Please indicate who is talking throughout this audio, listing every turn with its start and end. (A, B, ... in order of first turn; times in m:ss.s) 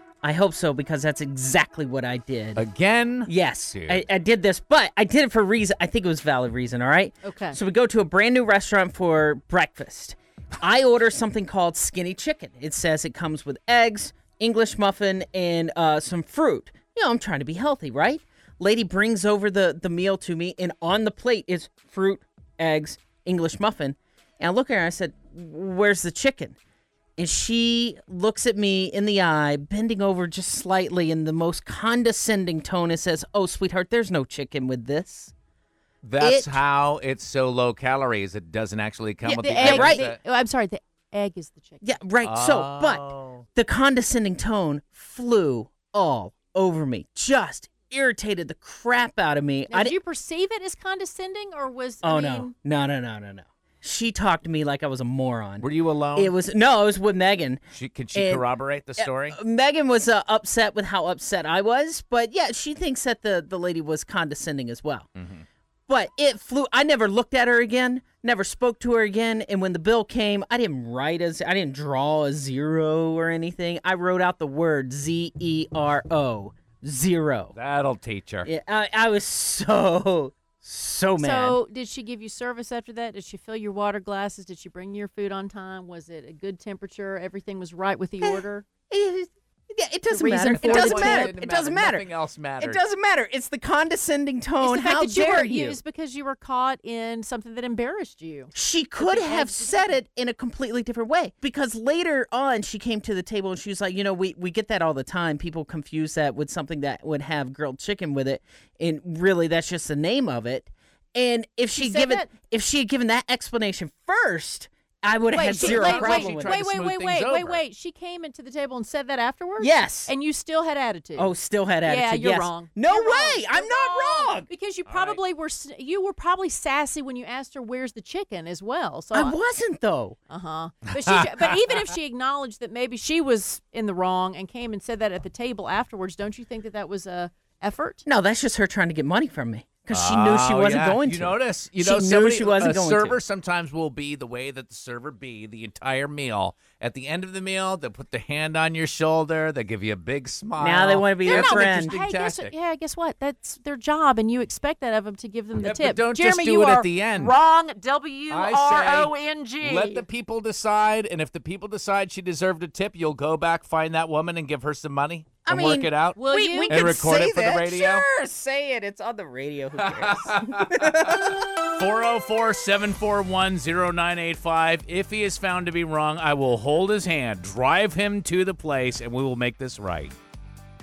0:00.2-0:02.6 A
0:02.6-0:04.0 B
0:03.3-0:26.6 A
0:07.2-0:07.6 C
0:27.2-0:35.3 A
0:36.0-0:40.2 B
0:36.2-0:36.6 A
0:39.2-0:42.0 C
0:39.4-0:40.1 A
0:41.8-0:50.0 A
0:42.2-0:43.4 B
0:49.7-0:52.5 C
0:52.0-0:57.6 A
0:55.6-0:56.3 B
0:57.7-0:59.4 B
0:58.1-0:58.4 A
0:59.0-1:05.1 A
1:05.2-1:05.4 B
1:05.9-1:17.5 A
1:17.6-1:18.5 B
1:18.4-1:21.6 A
1:21.2-1:28.7 C
1:28.2-1:35.8 A
1:30.1-1:31.3 C
1:30.5-1:32.8 B
1:34.6-1:40.0 C
1:38.5-1:56.6 A
1:51.7-1:52.3 C
1:55.3-2:09.4 C
1:55.4-1:57.6 B
1:59.6-2:00.1 A
2:01.2-2:04.5 A
2:04.9-2:05.2 B
2:09.1-2:10.2 A
2:10.3-2:18.0 C
2:18.1-2:23.2 A
2:19.9-2:32.5 B
2:30.6-2:32.0 A
2:31.2-2:40.1 C
2:35.6-2:37.3 B
2:38.3-2:48.0 B
2:45.4-2:51.4 A
2:46.2-2:46.8 C
2:49.8-3:00.1 B